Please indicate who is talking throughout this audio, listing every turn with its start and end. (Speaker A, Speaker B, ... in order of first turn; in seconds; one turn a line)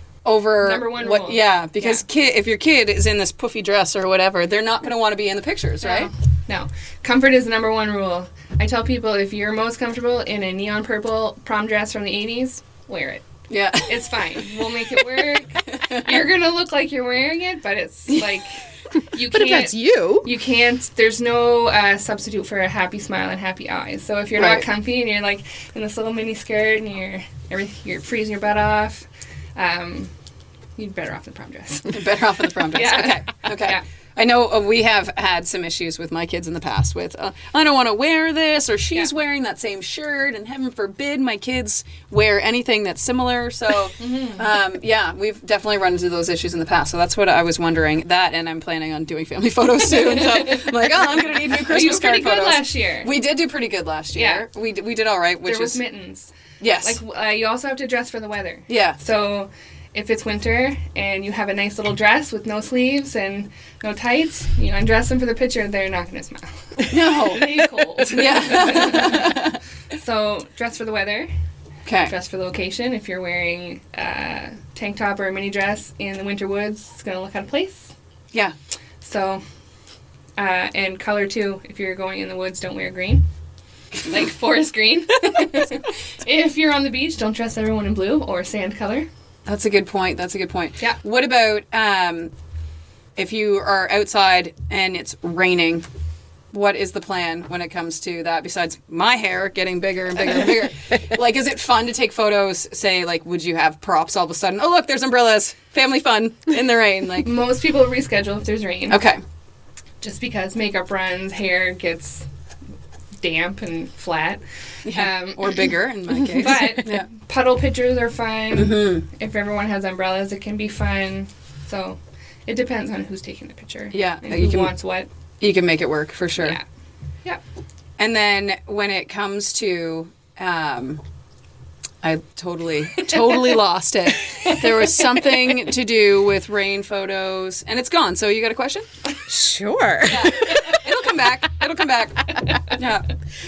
Speaker A: 0.2-6.1
Speaker B: 0.6-2.0
Speaker B: 5.8-13.2
Speaker A: 13.5-16.2
Speaker B: 13.9-30.1
Speaker C: 19.2-20.3
Speaker A: 24.4-24.6
Speaker B: 30.8-32.1
Speaker A: 31.9-55.8
Speaker B: 32.7-33.8
Speaker B: 44.0-44.4
Speaker B: 49.9-50.7
Speaker B: 51.5-53.1
Speaker B: 54.1-54.4
Speaker B: 55.4-71.3
Speaker A: 56.6-57.0
Speaker A: 58.7-59.0
Speaker A: 66.9-69.6
Speaker A: 71.8-72.1
Speaker B: 72.0-77.9
Speaker B: 79.0-79.4
Speaker B: 80.4-83.2
Speaker B: 84.1-89.1
Speaker A: 89.5-92.3
Speaker A: 93.2-95.8
Speaker A: 96.5-107.3
Speaker B: 107.2-109.0
Speaker A: 108.9-109.2
Speaker B: 110.0-112.3
Speaker B: 113.2-125.1
Speaker A: 114.8-117.0
Speaker A: 118.5-119.0
Speaker A: 123.9-124.7
Speaker A: 125.4-126.6
Speaker B: 126.4-126.6
Speaker A: 128.0-131.0
Speaker A: 132.0-138.8
Speaker C: 139.3-140.8
Speaker A: 140.1-143.1